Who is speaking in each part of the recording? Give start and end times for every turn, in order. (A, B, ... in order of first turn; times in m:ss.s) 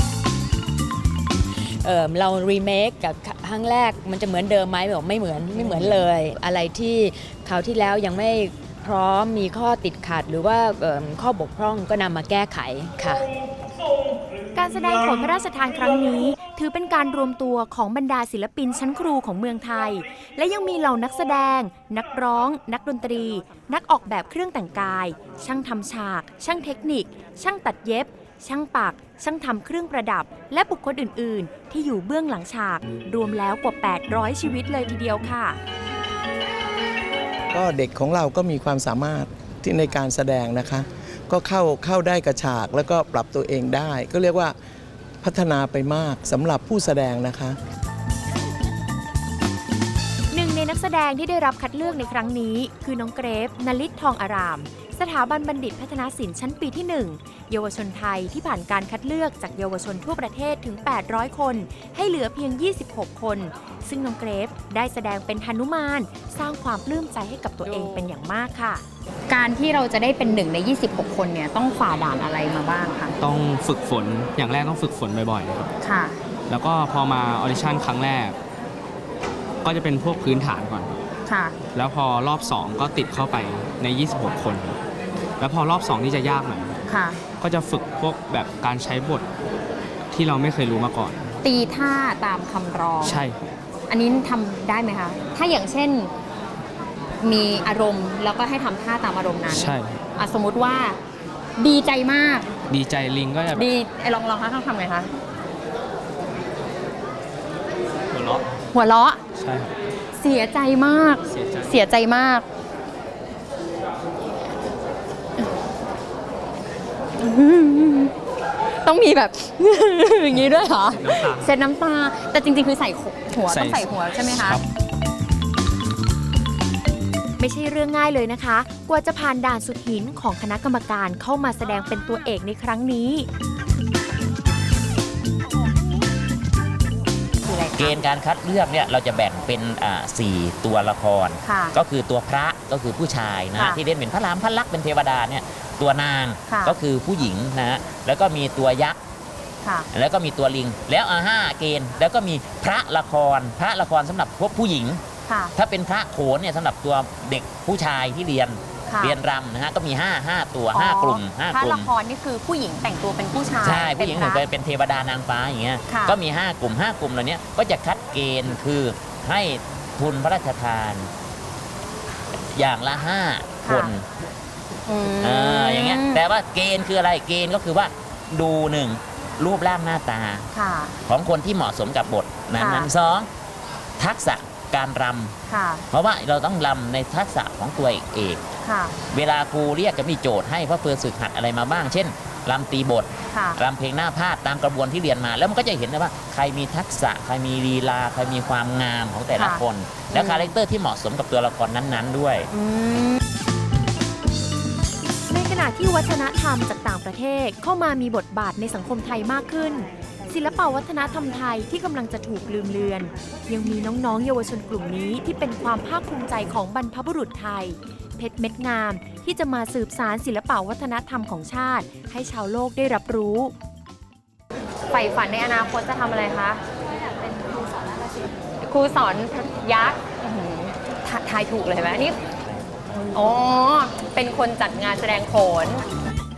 0:01.7-0:13.3 A
0:14.6-0:35.6 B
0:37.5-0:44.6 C
0:45.2-0:47.6 C
0:50.3-1:08.8 B
1:09.3-1:13.2 D
1:13.2-1:15.7 E
1:15.8-1:16.2 D
1:16.5-1:18.4 E
1:19.6-1:21.0 E
1:21.3-1:21.6 D
1:21.7-1:24.8 E
1:25.4-1:26.8 E
1:26.9-1:27.2 D
1:27.4-1:29.2 E
1:30.1-1:31.3 E
1:31.4-1:33.2 D
1:33.0-1:33.5 E
1:33.9-1:36.1 D
1:37.2-1:41.0 D
1:39.5-1:40.0 E
1:41.6-1:42.5 D
1:42.7-1:43.7 E
1:43.5-1:45.1 D
1:48.1-1:48.6 E
1:48.7-1:49.2 D
1:49.4-1:49.8 E
1:50.2-1:52.5 D
1:51.3-1:51.8 E
1:57.2-1:58.1 D
1:58.8-2:04.6 D
2:01.0-2:01.5 E
2:03.5-2:04.6 E
2:07.4-2:13.3 B
2:17.4-2:18.0 D
2:17.7-2:29.0 F
2:21.4-2:21.8 D
2:26.5-2:26.8 D
2:29.9-2:35.0 F
2:35.3-2:35.5 D
2:35.6-2:41.9 F
2:38.9-2:39.2 D
2:40.7-2:44.4 D
2:43.6-2:51.1 F
2:45.9-2:46.2 D
2:52.5-2:54.0 F
2:53.6-2:53.9 D
2:54.9-2:56.2 D
2:55.2-3:00.5 F
3:00.5-3:01.0 D
3:01.1-3:03.3 F
3:02.6-3:02.9 D
3:04.0-3:05.4 F
3:05.5-3:05.9 D
3:05.9-3:08.4 F
3:08.6-3:09.0 D
3:09.1-3:22.5 F
3:13.3-3:13.6 D
3:19.3-3:19.6 D
3:20.1-3:20.5 D
3:22.5-3:23.2 D
3:25.3-3:43.5 B
3:44.9-3:46.6 D
3:48.6-3:52.2 D
3:52.9-3:55.8 D